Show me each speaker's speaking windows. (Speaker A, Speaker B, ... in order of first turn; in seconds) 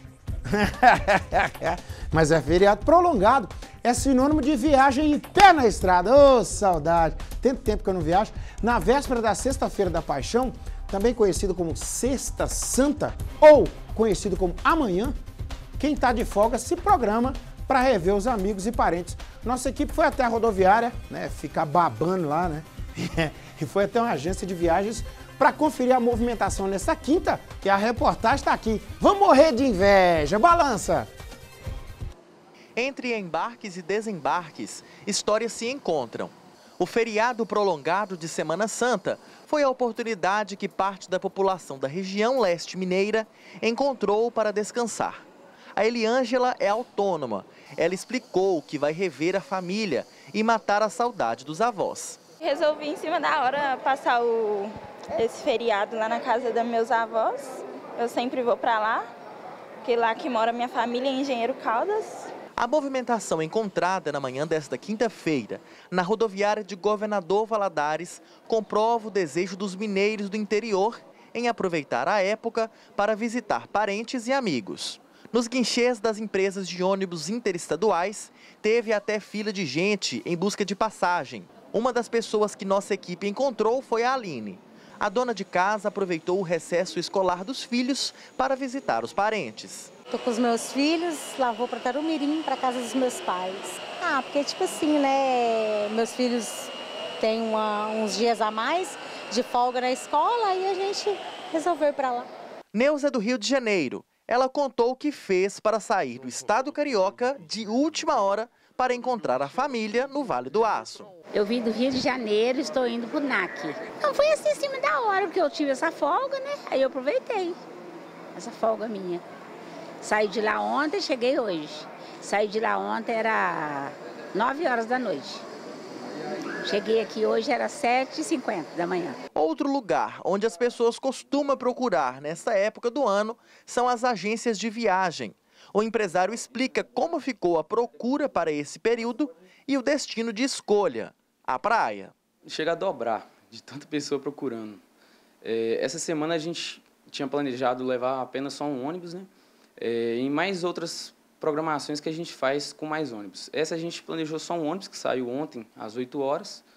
Speaker A: 0.5-15.1, 15.8-31.1
Speaker B: 32.8-45.2, 45.8-52.2, 62.6-89.9, 102.7-111.1, 129.3-142.1
Speaker C: 52.5-59.0, 59.8-62.3
Speaker D: 90.1-102.3
Speaker E: 111.3-117.6, 118.3-119.2, 120.0-125.4, 126.6-129.2
Speaker F: 142.4-144.8, 145.4-156.6